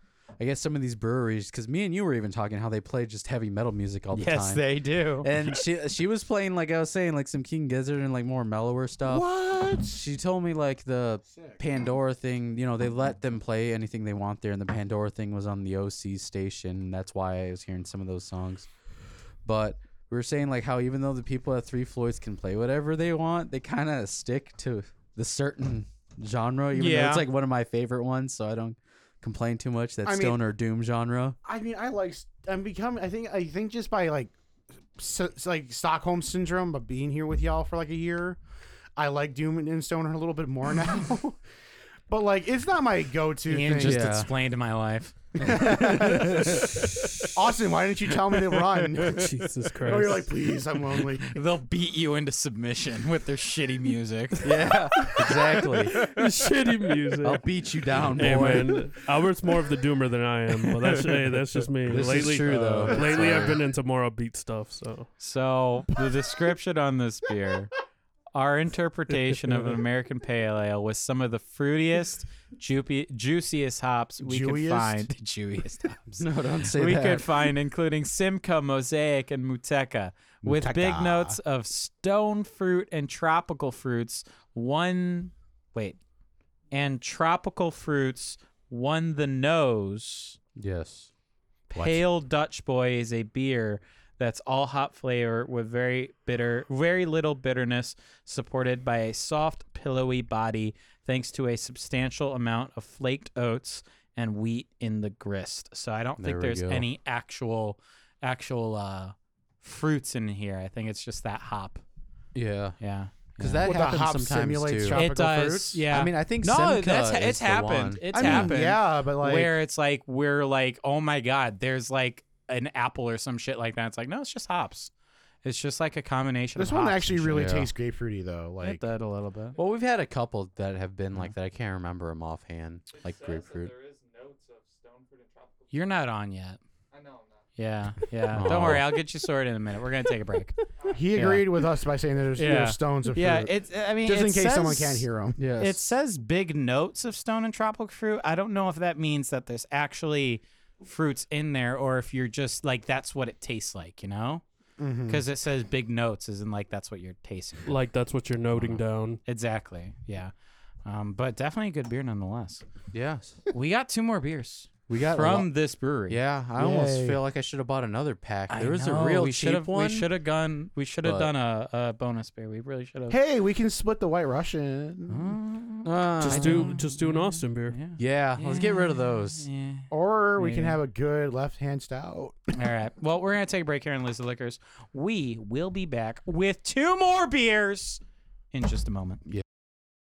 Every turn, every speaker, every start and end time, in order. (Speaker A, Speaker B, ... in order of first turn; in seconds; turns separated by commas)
Speaker A: 0.4-4.7, Speaker B: 4.1-5.6, Speaker A: 5.2-9.3, Speaker C: 9.1-10.0, Speaker A: 9.8-18.7, Speaker C: 11.3-11.6, Speaker A: 19.4-31.4, Speaker B: 26.7-27.2, Speaker C: 30.0-30.4, Speaker C: 31.4-34.3, Speaker C: 35.0-38.4, Speaker C: 39.0-41.4, Speaker C: 42.1-44.1, Speaker B: 43.5-45.8, Speaker A: 43.7-44.3, Speaker C: 45.4-49.3, Speaker A: 45.4-46.8, Speaker D: 49.0-50.3, Speaker C: 49.8-51.3, Speaker B: 51.2-54.5, Speaker A: 54.4-55.9, Speaker D: 55.2-57.4, Speaker A: 57.2-58.9, Speaker D: 58.0-65.1, Speaker A: 61.9-63.6, Speaker B: 65.2-67.7, Speaker B: 68.3-86.0, Speaker C: 74.2-75.1, Speaker A: 76.2-77.5, Speaker C: 80.4-81.4, Speaker B: 86.7-90.4, Speaker A: 90.6-91.1, Speaker B: 91.7-111.8, Speaker A: 106.2-106.9, Speaker A: 112.3-112.8, Speaker B: 112.8-113.7, Speaker A: 113.4-115.0, Speaker C: 113.6-115.8, Speaker B: 114.9-124.9, Speaker A: 115.9-118.6, Speaker C: 118.1-119.5, Speaker B: 125.4-127.5, Speaker C: 126.5-128.8, Speaker A: 127.3-127.7, Speaker B: 128.6-129.6, Speaker A: 129.6-133.7, Speaker E: 133.0-135.6, Speaker B: 135.7-136.6, Speaker E: 136.9-137.4, Speaker B: 137.6-140.6, Speaker A: 138.3-138.9, Speaker C: 140.9-143.5, Speaker B: 141.1-141.5, Speaker B: 142.3-145.1, Speaker C: 144.0-145.4, Speaker A: 145.3-145.8, Speaker B: 145.6-154.4, Speaker C: 154.8-155.2, Speaker B: 155.1-157.8, Speaker D: 157.7-159.2, Speaker B: 158.5-160.3, Speaker B: 160.8-162.6, Speaker A: 162.9-163.4, Speaker B: 163.5-166.2, Speaker A: 164.9-165.5, Speaker A: 166.1-170.1, Speaker C: 166.6-167.2, Speaker B: 168.5-173.2, Speaker A: 171.0-171.3, Speaker C: 173.1-175.3, Speaker B: 175.1-180.8, Speaker A: 175.8-176.7, Speaker D: 176.2-177.8, Speaker A: 178.0-179.5, Speaker C: 179.9-182.4, Speaker B: 182.5-188.0, Speaker B: 188.5-189.2